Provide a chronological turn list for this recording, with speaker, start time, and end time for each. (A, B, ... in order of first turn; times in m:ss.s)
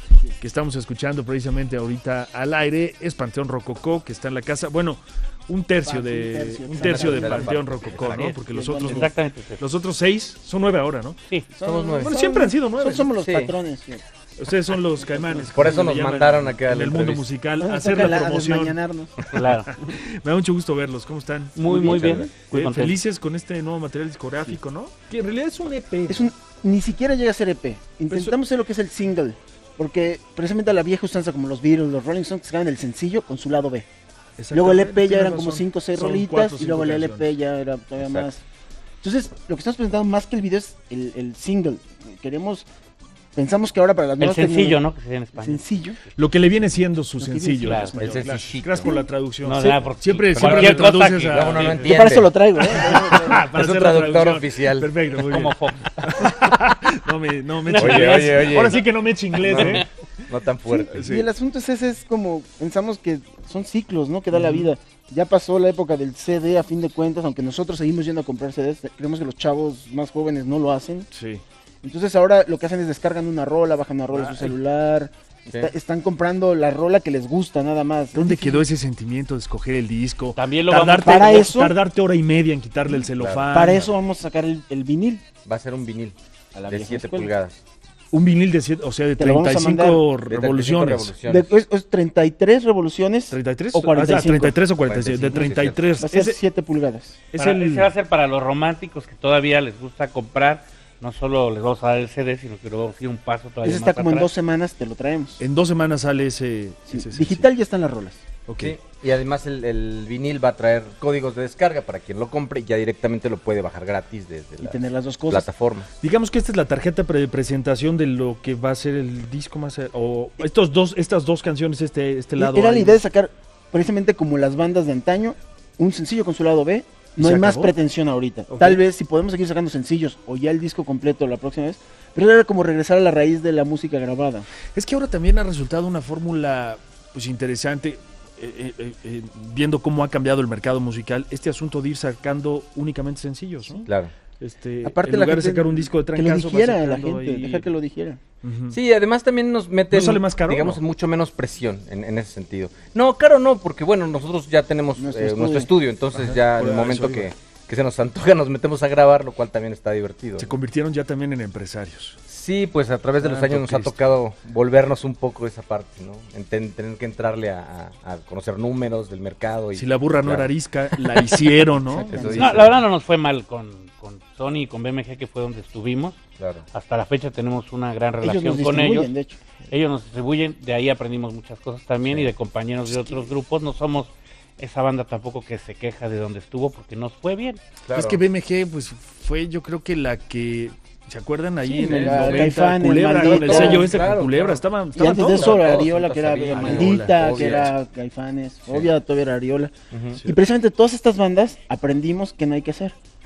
0:00.4-0:11.2 A
0:05.8-0:07.7 B
0:06.7-0:08.3 C
0:08.4-0:09.1 B
0:08.8-0:09.6 D
0:11.5-0:14.0 B
0:11.6-0:12.2 C
0:12.0-0:13.1 A
0:13.2-0:13.6 C
0:14.4-0:18.8 A
0:15.0-0:15.5 B
0:15.5-0:17.2 C
0:17.6-0:19.2 B
0:19.3-0:21.7 A
0:19.3-0:19.8 D
0:21.5-0:23.0 D
0:21.6-0:22.2 B
0:21.8-0:22.3 C
0:22.2-0:26.3 A
0:26.1-0:33.9 B
0:28.1-0:28.4 A
0:34.4-0:37.3 A
0:34.5-0:38.4 B
0:38.0-0:38.3 C
0:39.0-0:42.6 B
0:43.4-0:44.8 B
0:44.2-0:46.0 D
0:45.4-0:46.0 B
0:46.1-0:52.0 A
0:47.2-0:48.2 B
0:47.6-0:47.9 D
0:48.0-0:48.9 C
0:48.7-0:49.1 B
0:49.4-0:51.9 D
0:50.3-0:52.3 C
0:51.8-0:53.5 B
0:52.6-0:59.9 A
0:53.5-0:54.9 C
0:55.2-0:56.0 D
0:57.6-0:58.4 D
0:57.8-0:58.8 C
0:59.4-1:01.0 C
0:59.5-0:59.8 D
1:00.7-1:11.1 B
1:00.9-1:01.3 A
1:04.3-1:04.7 A
1:11.1-1:11.4 A
1:11.8-1:18.6 B
1:14.1-1:14.6 A
1:18.1-1:23.9 A
1:20.3-1:21.4 D
1:21.0-1:21.7 B
1:23.2-1:23.8 C
1:23.5-1:25.2 B
1:25.4-1:26.2 C
1:26.5-1:27.3 B
1:26.7-1:27.6 C
1:28.1-1:31.1 A
1:29.2-1:30.0 B
1:30.2-1:31.5 C
1:31.2-1:34.6 B
1:33.3-1:36.4 A
1:34.8-1:35.8 C
1:36.0-1:37.2 B
1:37.3-1:37.9 A
1:37.4-1:44.3 D
1:43.6-1:45.4 B
1:45.4-1:47.5 A
1:46.9-1:48.2 B
1:48.5-1:48.8 A
1:48.6-1:55.9 C
1:54.6-1:55.5 B
1:56.0-2:03.0 A
2:02.4-2:14.5 B
2:07.2-2:07.7 A
2:08.5-2:08.8 A
2:14.7-2:23.8 A
2:23.8-2:24.1 C
2:24.4-2:27.7 A
2:24.8-2:28.2 B
2:28.4-2:28.8 A
2:28.7-2:40.5 C
2:29.9-2:30.8 A
2:35.0-2:35.7 B
2:36.1-2:37.3 A
2:40.4-2:42.2 A
2:42.3-2:50.5 C
2:43.2-2:43.9 A
2:49.7-2:52.7 A
2:51.8-2:52.6 B
2:52.0-2:52.8 C
2:52.3-2:56.2 D
2:56.4-2:56.6 C
2:56.7-2:59.1 D
2:58.2-2:59.4 B
2:59.7-3:07.6 D
3:07.9-3:08.2 C
3:07.9-3:15.8 A
3:11.6-3:14.0 B
3:11.8-3:12.5 C
3:13.2-3:14.6 C
3:14.9-3:19.7 B
3:15.3-3:17.7 C
3:16.5-3:17.6 A
3:18.7-3:18.9 C
3:19.9-3:20.2 C
3:20.2-3:23.0 B